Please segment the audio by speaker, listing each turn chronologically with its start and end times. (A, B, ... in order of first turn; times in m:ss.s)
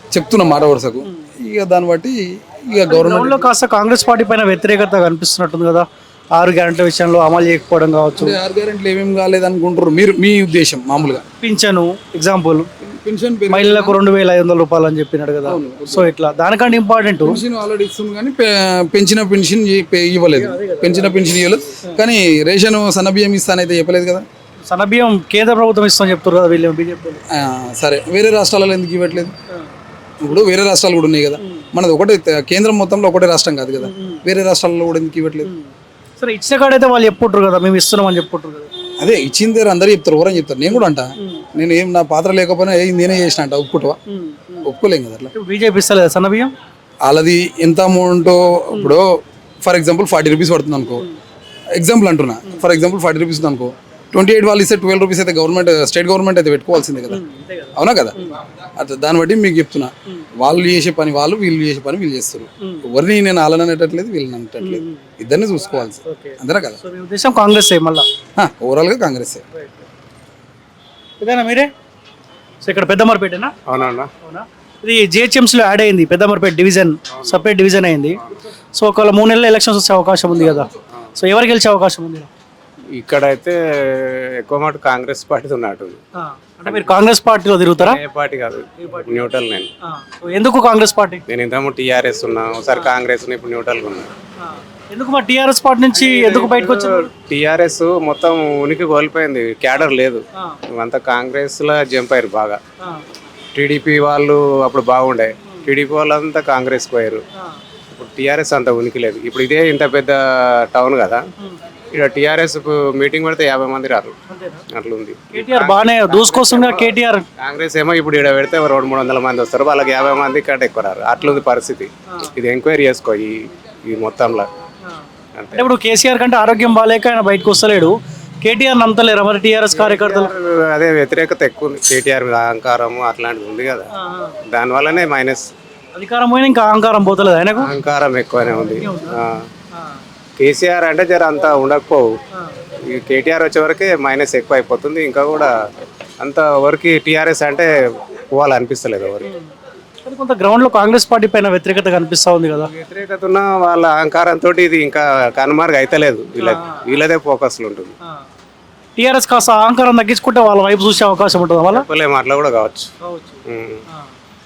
0:00.1-0:03.4 A
0:02.9-0:08.4 B
0:08.2-0:11.2 A
0:11.3-0:12.7 B
0:12.8-0:14.0 A
0:13.5-0:17.4 B
0:15.5-0:16.1 A
0:17.2-0:24.2 A
0:20.4-0:21.2 B
0:24.7-0:27.2 B
0:27.3-0:29.3 A
0:30.2-0:35.5 A
0:33.8-0:34.2 B
0:35.4-0:38.7 B
0:39.0-0:44.0 A
0:40.7-0:41.4 B
0:44.1-0:44.7 B
0:44.6-0:45.3 A
0:45.4-0:46.5 B
0:47.1-0:51.1 A
0:51.8-0:57.2 A
0:57.1-0:58.4 B
0:57.8-0:58.2 A
0:58.8-1:06.8 A
1:04.6-1:05.0 B
1:06.1-1:08.1 B
1:08.4-1:09.4 A
1:11.2-1:11.7 B
1:12.6-1:13.5 B
1:13.7-1:14.1 C
1:14.2-1:18.2 B
1:18.8-1:22.3 B
1:23.0-1:26.0 C
1:26.2-1:28.0 B
1:26.6-1:26.9 C
1:27.8-1:29.7 C
1:28.8-1:29.3 B
1:29.8-1:31.2 B
1:31.3-1:34.1 C
1:34.4-1:37.1 B
1:35.9-1:40.2 C
1:40.7-1:42.6 C
1:43.6-1:47.2 C
1:47.9-1:51.2 C
1:51.9-1:54.1 C
1:54.3-1:54.6 B
1:54.7-2:04.5 C
1:55.3-1:57.2 B
2:05.4-2:05.7 C
2:05.5-2:10.3 B
2:09.7-2:13.9 C
2:14.0-2:14.4 B
2:14.4-2:15.5 C
2:16.0-2:17.7 B
2:17.6-2:19.5 C
2:18.8-2:19.2 B
2:19.7-2:20.0 B
2:20.4-2:22.1 C
2:22.9-2:25.5 C
2:26.2-2:27.7 C
2:28.3-2:29.3 C
2:30.0-2:32.7 B
2:32.6-2:38.0 C
2:36.4-2:36.8 B
2:39.0-2:41.8 B
2:41.7-2:42.9 C
2:43.0-2:44.1 B
2:43.5-2:43.8 C